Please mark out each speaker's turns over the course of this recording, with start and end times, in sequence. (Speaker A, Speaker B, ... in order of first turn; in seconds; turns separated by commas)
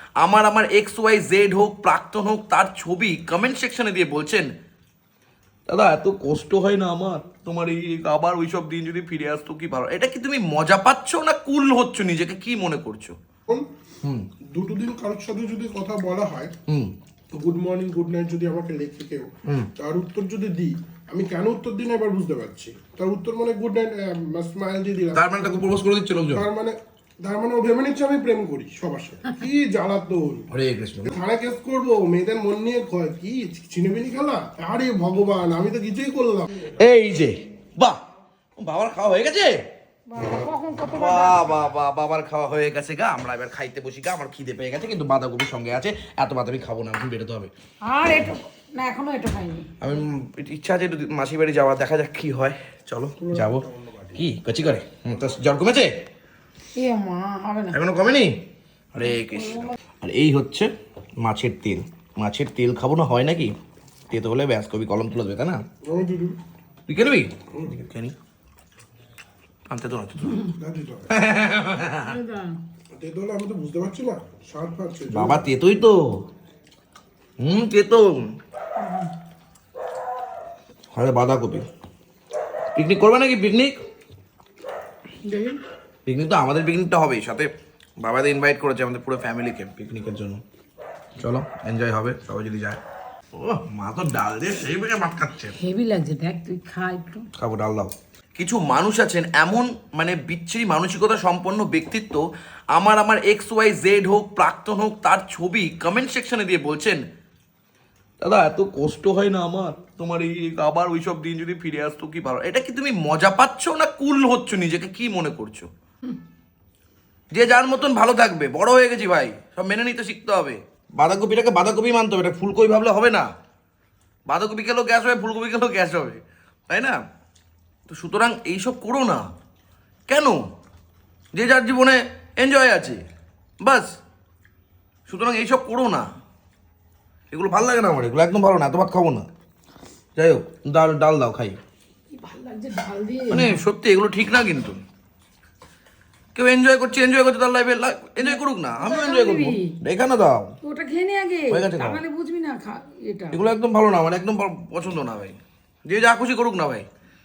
Speaker A: 0.2-4.5, Speaker A: 5.7-13.2, Speaker B: 14.5-16.5, Speaker B: 17.3-25.3, Speaker A: 25.1-26.4, Speaker B: 26.3-30.4, Speaker A: 30.5-31.1, Speaker B: 31.0-36.7, Speaker A: 36.7-38.0, Speaker A: 38.6-39.6, Speaker C: 40.1-41.4, Speaker A: 40.9-47.5, Speaker C: 47.8-49.7, Speaker A: 49.8-53.6, Speaker B: 53.2-54.2, Speaker A: 54.1-55.9, Speaker C: 56.8-57.8, Speaker A: 57.7-58.3, Speaker A: 58.9-60.7, Speaker C: 59.3-59.7, Speaker A: 61.2-63.5, Speaker A: 64.1-65.6, Speaker B: 65.8-66.4, Speaker A: 66.9-68.1, Speaker A: 69.7-70.5, Speaker B: 70.5-71.1, Speaker A: 71.1-72.2, Speaker C: 72.0-72.6, Speaker B: 73.0-75.4, Speaker A: 75.1-76.0, Speaker A: 77.4-78.1, Speaker C: 78.8-79.1, Speaker A: 80.9-81.7, Speaker A: 82.7-83.8, Speaker C: 85.2-85.6, Speaker A: 86.0-87.5, Speaker A: 88.0-90.4, Speaker A: 91.2-92.8, Speaker A: 93.3-95.5, Speaker C: 95.6-97.3, Speaker A: 97.3-107.0, Speaker A: 108.2-115.7, Speaker A: 117.3-123.3, Speaker A: 124.3-127.0, Speaker A: 127.9-129.2, Speaker A: 130.1-130.4, Speaker A: 131.3-133.0, Speaker A: 133.6-133.9, Speaker A: 135.1-136.1, Speaker A: 137.3-139.3, Speaker A: 140.2-141.6, Speaker C: 142.1-143.6, Speaker A: 143.3-144.8, Speaker A: 146.3-150.5, Speaker C: 148.2-149.7, Speaker C: 150.6-153.4, Speaker A: 151.5-152.0, Speaker A: 153.3-156.9